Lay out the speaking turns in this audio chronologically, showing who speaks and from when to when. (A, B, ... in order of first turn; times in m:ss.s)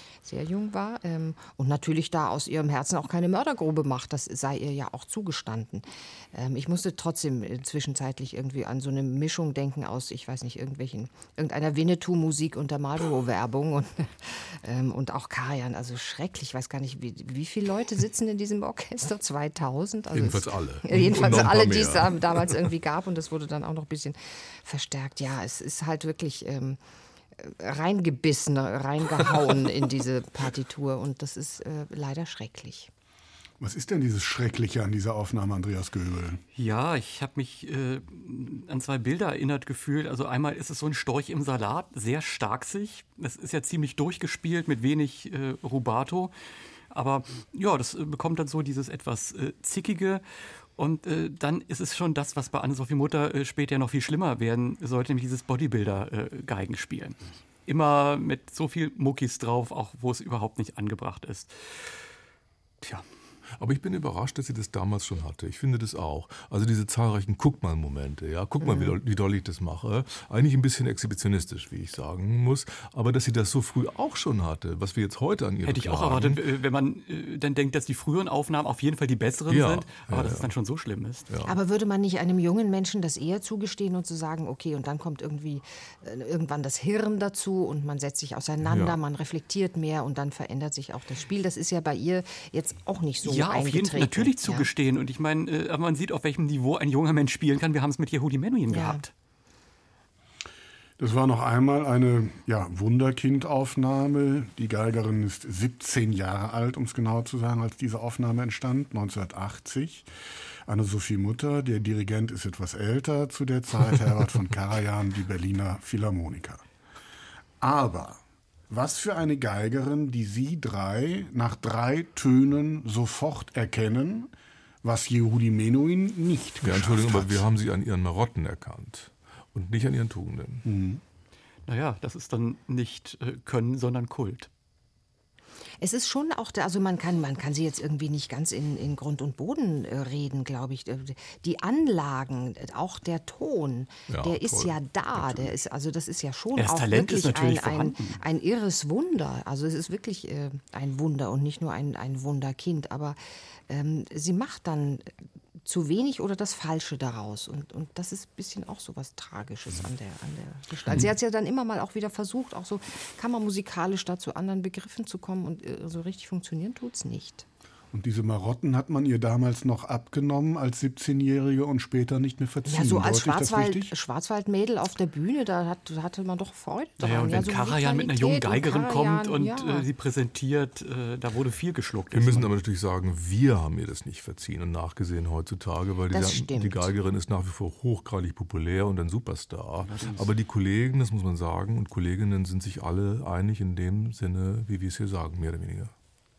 0:00.2-0:26.8 A
0:20.1-0:22.6 B
0:27.3-0:32.9 A
0:33.6-0:36.4 C
0:36.5-0:46.3 D
0:46.9-0:50.2 D
0:50.8-1:01.5 D
1:03.6-1:16.4 B
1:08.6-1:09.0 A
1:15.6-1:21.3 D
1:19.5-1:20.5 B
1:21.4-1:34.7 A
1:28.6-1:29.0 B
1:33.2-1:39.1 D
1:38.7-1:39.0 A
1:41.0-1:50.1 C
1:50.7-1:56.6 C
1:57.6-2:04.3 C
2:04.8-2:07.5 C
2:06.6-2:10.7 B
2:10.6-2:11.0 C
2:11.6-2:14.5 D
2:15.8-2:33.2 A
2:24.1-2:25.5 B
2:26.6-2:28.2 D
2:33.7-2:47.4 A
2:47.9-2:53.9 C
2:52.7-2:59.9 A
2:57.0-3:02.5 D
3:02.1-3:15.9 B
3:06.1-3:06.9 A
3:09.8-3:10.3 D